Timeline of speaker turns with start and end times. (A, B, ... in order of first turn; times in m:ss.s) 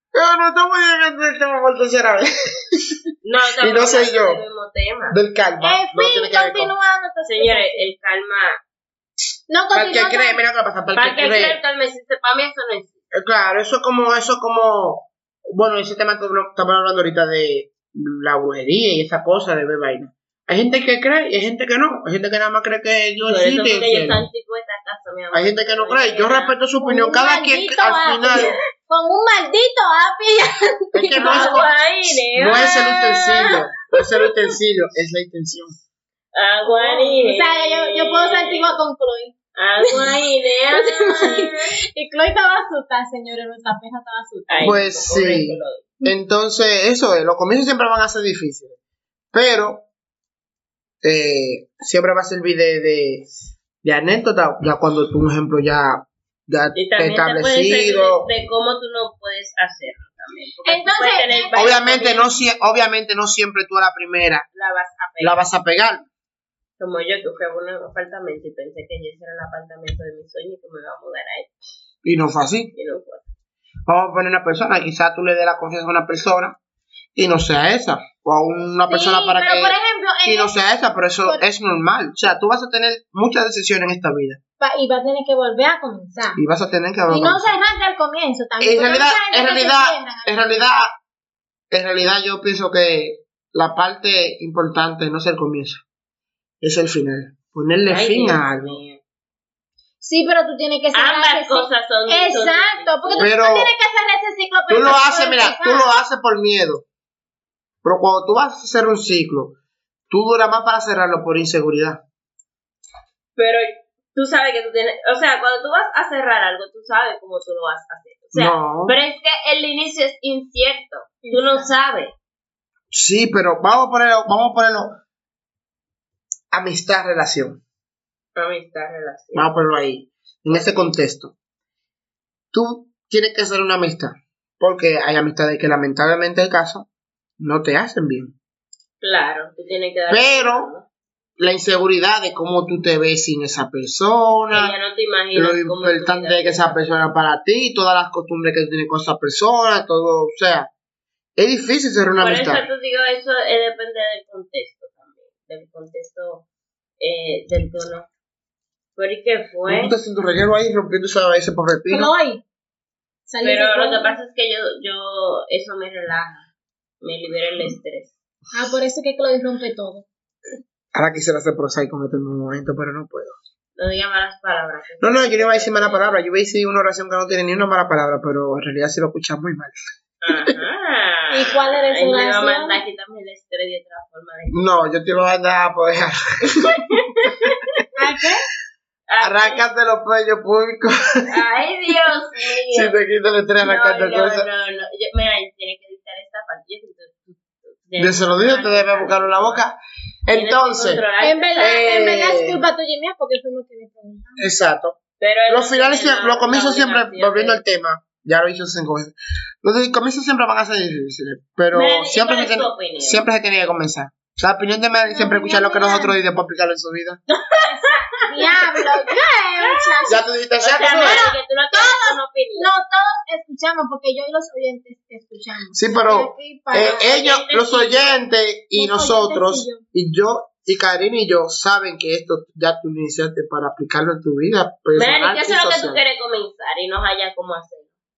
0:00.1-0:03.0 A
0:03.2-0:05.2 B
0:03.6-0:04.4 A
0:05.1-0:06.7 A
0:05.6-0:07.9 C
0:07.2-0:08.6 B
0:09.5-0:10.4 C
0:09.7-0:11.6 A
0:11.0-0:12.9 B
0:13.1-0:24.2 A
0:23.2-0:26.6 B
0:25.3-0:28.5 A
0:26.8-0:31.7 C
0:30.9-0:31.7 A
0:31.2-0:33.5 B
0:32.3-0:35.8 A
0:36.3-0:38.8 B
0:36.6-0:40.2 C
0:39.6-0:41.8 B
0:40.7-0:44.8 C
0:44.5-0:45.8 B
0:44.6-0:48.8 A
0:49.3-0:49.8 A
0:51.0-0:53.3 A
0:53.8-0:58.3 A
0:56.7-1:02.3 B
1:00.6-1:01.9 C
1:01.5-1:04.4 A
1:04.5-1:05.4 B
1:05.2-1:06.0 A
1:06.8-1:11.5 B
1:12.0-1:12.7 A
1:12.7-1:13.2 B
1:13.9-1:16.6 A
1:17.1-1:24.4 A
1:18.9-1:20.5 C
1:24.6-1:26.4 C
1:26.4-1:27.6 A
1:27.1-1:30.7 C
1:28.6-1:30.9 A
1:31.7-1:35.8 A
1:36.6-1:38.8 A
1:37.9-1:39.0 B
1:40.0-1:45.9 C
1:40.9-1:43.3 B
1:43.2-1:43.7 A
1:44.7-1:46.8 A
1:47.8-1:49.6 A
1:50.1-1:52.0 A
1:53.4-2:02.1 B
1:58.3-1:59.0 A
2:01.2-2:01.7 C
2:02.9-2:05.0 A
2:06.5-2:07.6 A
2:08.3-2:09.5 B
2:09.3-2:11.3 A
2:10.5-2:10.9 B
2:12.5-2:16.9 A
2:17.4-2:18.4 A
2:19.0-2:20.8 B
2:20.1-2:20.7 A
2:21.4-2:24.7 A
2:24.5-2:26.9 B
2:25.3-2:30.7 A
2:31.4-2:32.6 A
2:32.2-2:36.4 B
2:37.0-2:38.1 B
2:39.0-2:39.9 B
2:39.7-2:42.1 A
2:41.9-2:42.4 C
2:43.3-2:44.2 C
2:43.4-2:46.4 B
2:47.0-2:48.1 B
2:48.5-2:50.0 C
2:50.9-2:53.4 A
2:53.8-2:56.2 B
2:55.0-2:59.7 A
3:00.2-3:04.6 B
3:01.3-3:02.8 C
3:04.5-3:06.8 A
3:06.7-3:07.6 B
3:07.9-3:08.4 C
3:09.1-3:09.6 B
3:09.2-3:11.3 A
3:11.3-3:12.9 B
3:12.7-3:14.5 A
3:13.6-3:19.6 B
3:18.0-3:21.0 A
3:20.3-3:22.1 B
3:21.2-3:24.4 C
3:21.6-3:22.6 A
3:24.4-3:25.0 A
3:25.2-3:27.6 B
3:25.5-3:37.2 A
3:31.7-3:33.2 B
3:34.8-3:36.1 C
3:37.3-3:40.0 B
3:37.6-3:40.3 C
3:40.1-3:41.2 A
3:40.6-3:42.7 B
3:40.9-3:47.1 C
3:45.7-3:56.0 A
3:46.8-3:48.2 B
3:48.7-3:49.8 C
3:54.9-3:57.9 B